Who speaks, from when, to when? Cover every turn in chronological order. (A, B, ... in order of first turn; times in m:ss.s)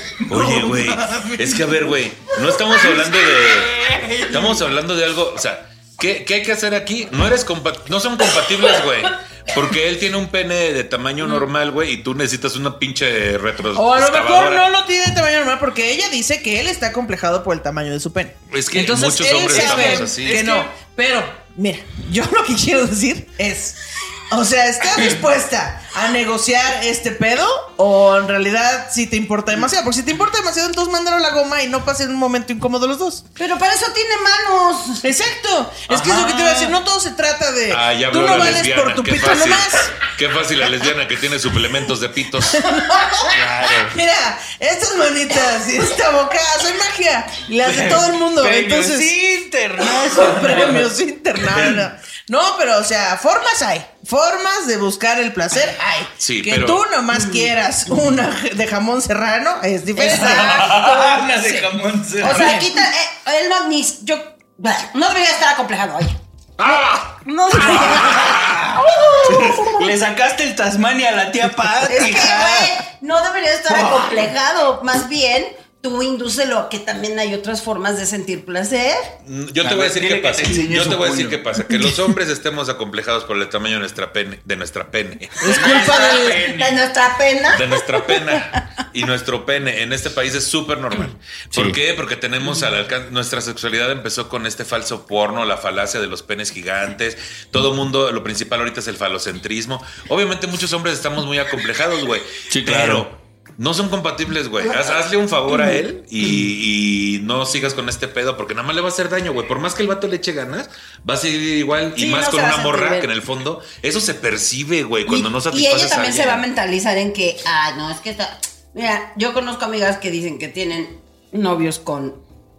0:00.2-0:01.6 A
0:00.3-0:03.7 B
0:02.8-0:04.6 A
0:04.3-0:14.6 B
0:13.7-0:33.2 C
0:18.5-0:20.4 B
0:19.5-0:20.7 A
0:33.4-0:35.1 D
0:35.0-0:39.9 C
0:35.9-0:36.7 A
0:37.7-0:42.7 B
0:42.5-0:49.2 C
0:43.3-0:43.9 A
0:47.6-0:50.8 A
0:49.8-1:00.5 C
0:51.4-0:51.8 A
0:56.2-0:56.8 B
0:57.1-0:57.5 D
0:59.9-1:01.6 D
1:00.0-1:02.7 A
1:02.2-1:09.9 D
1:02.2-1:02.7 C
1:07.7-1:12.7 A
1:11.8-1:19.1 D
1:13.7-1:14.2 A
1:19.2-1:25.5 B
1:19.6-1:21.4 A
1:25.4-1:26.4 C
1:25.4-1:26.8 A
1:25.6-1:28.4 D
1:27.5-1:56.4 B
1:42.5-1:43.1 A
1:51.9-1:53.1 D
1:55.1-2:02.2 D